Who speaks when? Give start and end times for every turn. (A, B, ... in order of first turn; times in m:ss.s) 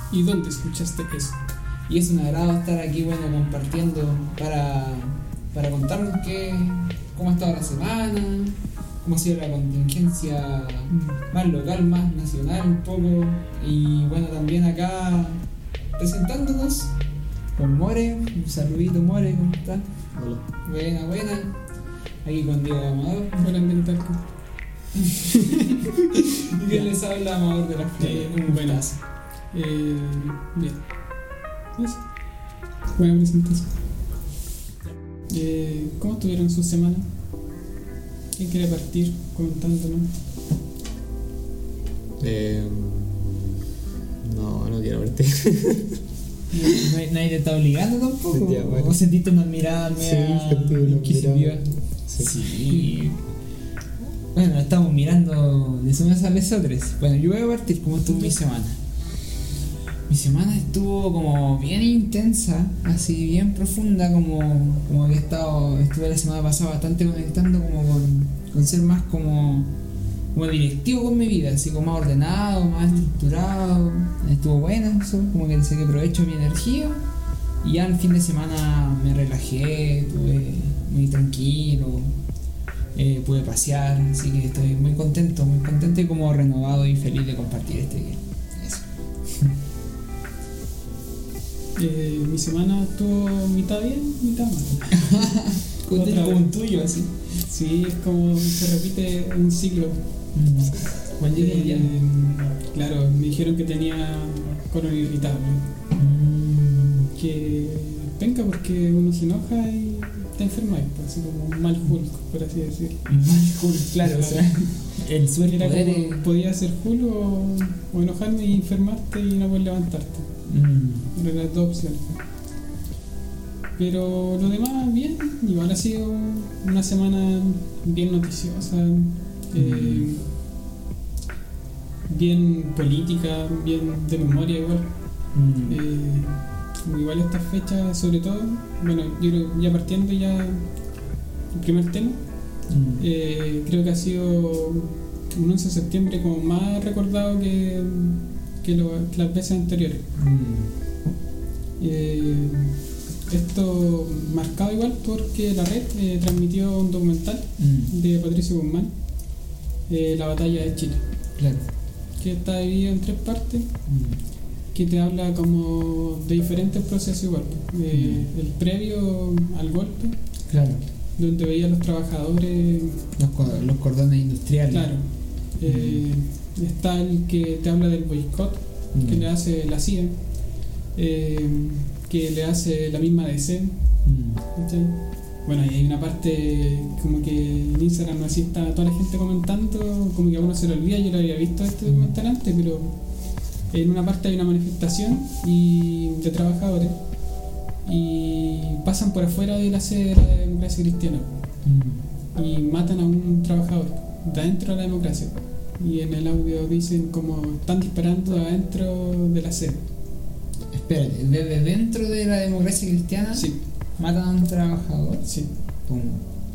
0:00.1-0:01.4 A
0:01.9-0:15.4 B
0:10.9-0:11.2 A
0:16.0-0:16.9 B
0:17.6-0:19.8 B
0:20.1-0:20.4 C
0:20.6-0:21.5 B
0:22.2-0:23.5 B
0:23.4-0:24.2 A
0:26.4-0:29.0 B
0:28.0-0:33.8 A
0:35.3-0:37.1 A
0:38.4-0:40.1 A
0:42.2-0:43.6 C
0:44.2-0:46.0 C
0:46.5-0:46.8 A
0:46.7-0:53.2 B
0:48.3-0:49.0 C
0:50.0-0:52.3 C
0:52.6-0:52.9 A
0:54.3-0:58.8 B
1:00.1-1:09.7 B
1:10.3-1:17.0 B
1:17.6-1:22.1 B
1:22.9-1:29.5 B
1:31.8-1:35.2 A
1:35.0-1:37.4 B
1:35.9-1:36.4 A
1:37.4-1:40.0 A
1:40.3-1:41.9 B
1:41.2-1:45.7 A
1:46.0-1:47.1 B
1:47.1-1:53.1 A
1:53.0-1:56.2 B
1:54.0-1:54.7 A
1:55.4-2:00.4 A
2:00.5-2:01.1 B
2:01.1-2:02.2 A
2:03.8-2:10.3 A
2:09.5-2:10.1 B
2:12.1-2:21.0 A
2:15.3-2:15.8 B
2:21.5-2:30.0 A
2:22.7-2:23.0 B
2:30.2-2:30.7 B
2:31.8-2:32.7 A
2:33.3-2:41.0 A
2:37.6-2:37.9 B
2:41.4-2:41.6 B
2:42.2-2:43.7 A
2:43.9-2:44.2 B
2:44.7-2:50.2 A
2:47.9-2:48.3 B
2:50.5-2:50.8 B
2:51.2-2:53.6 A
2:53.2-2:56.0 B
2:54.7-3:21.4 A
2:58.9-2:59.2 B
3:04.0-3:04.4 B
3:11.8-3:12.1 B
3:21.6-3:22.0 B
3:22.3-3:29.8 A
3:30.7-3:36.2 B
3:33.3-3:33.6 A
3:35.2-3:35.5 A